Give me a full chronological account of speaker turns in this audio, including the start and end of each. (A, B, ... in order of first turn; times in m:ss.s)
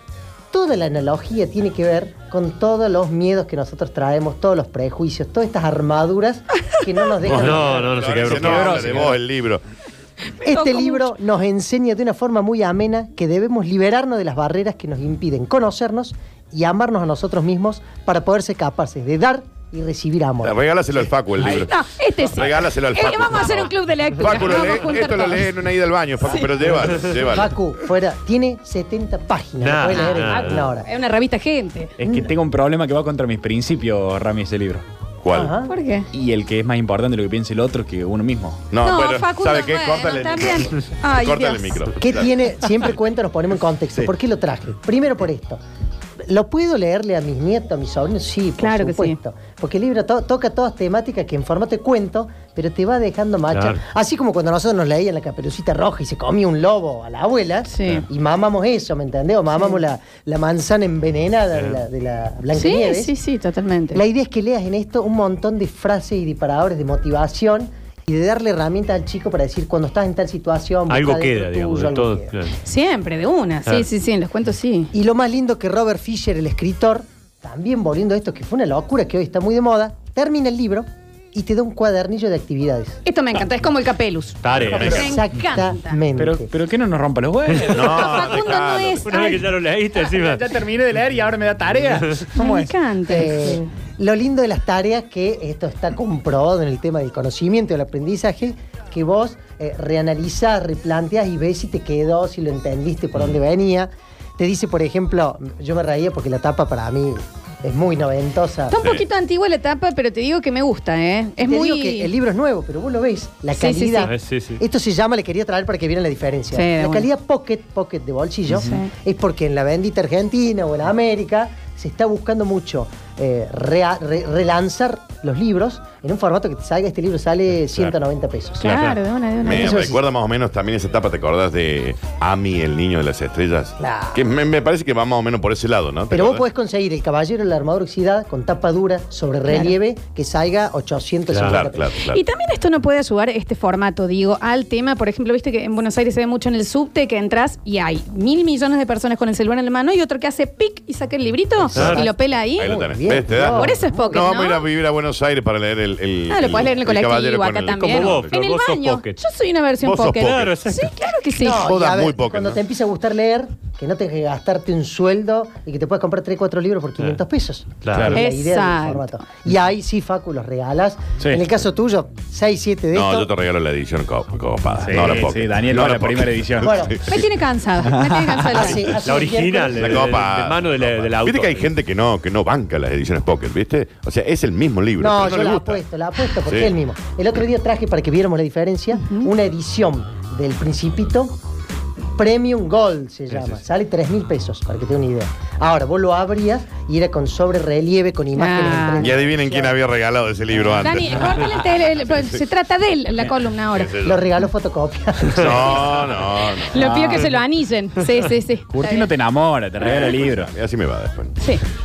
0:00.5-0:08.0 A
0:07.2-0:09.6 B
0:07.3-0:09.1 C
0:08.2-0:09.1 D
0:10.4-0:20.6 A
0:10.5-0:11.1 E
0:20.4-0:27.5 B
0:21.4-0:25.6 E
0:26.2-0:26.5 E
0:27.3-0:30.9 A
0:29.6-0:30.6 C
0:29.9-0:31.9 E
0:32.0-0:34.8 D
0:32.0-0:32.3 A
0:35.2-0:35.5 B
0:35.3-0:35.7 A
0:35.7-0:36.1 E
0:36.1-0:38.7 D
0:38.7-0:42.4 B
0:38.8-0:41.8 E
0:42.0-0:45.6 A
0:46.2-1:03.1 A
0:48.6-0:49.2 E
0:53.5-0:53.8 C
0:57.7-0:58.1 E
1:02.5-1:04.0 E
1:03.9-1:12.4 A
1:10.9-1:12.6 C
1:12.6-1:14.9 E
1:14.9-1:23.0 A
1:23.0-1:26.0 E
1:24.4-1:25.0 C
1:24.7-1:25.1 D
1:24.8-1:26.5 A
1:26.2-1:27.8 D
1:27.5-1:28.2 C
1:27.6-1:29.2 B
1:27.7-1:29.5 E
1:29.1-1:30.4 C
1:30.1-1:32.7 D
1:32.4-1:33.7 E
1:33.1-1:48.8 A
1:48.7-1:52.1 E
1:51.4-2:08.7 A
1:53.6-1:54.1 E
1:54.0-1:54.6 C
1:56.5-1:57.1 E
1:58.5-1:58.9 E
2:08.6-2:09.8 E
2:08.6-2:09.0 C
2:09.4-2:16.4 B
2:09.5-2:10.0 A
2:13.8-2:14.2 A
2:16.1-2:21.8 A
2:19.5-2:19.7 E
2:21.3-2:21.6 C
2:21.5-2:22.2 B
2:22.1-2:32.8 E
2:31.7-2:32.0 C
2:31.8-2:34.3 A
2:31.8-2:32.0 B
2:32.6-2:38.3 B
2:33.4-2:34.7 E
2:36.3-2:41.7 E
2:37.8-2:39.2 C
2:39.8-2:40.6 B
2:40.1-2:40.9 C
2:41.4-2:53.3 A
2:41.5-2:42.6 B
2:47.8-2:48.2 C
2:47.9-2:48.2 D
2:48.1-2:49.2 E
2:52.9-2:57.2 B
2:54.8-2:57.2 D
2:54.8-2:55.2 C
2:56.6-2:57.0 A
2:57.1-2:58.8 E
2:57.8-2:58.8 D
2:58.5-3:00.1 A
2:59.0-3:01.7 C
2:59.7-3:05.8 B
3:05.0-3:11.4 A
3:06.4-3:06.7 B
3:09.0-3:09.3 E
3:12.2-3:19.8 A
3:18.4-3:19.1 E
3:19.0-3:22.4 B
3:20.7-3:24.0 E
3:23.7-3:24.2 B
3:24.0-3:25.9 A
3:25.3-3:27.0 B
3:26.5-3:29.1 E
3:26.7-3:27.3 D
3:28.7-3:30.5 D
3:29.8-3:31.4 B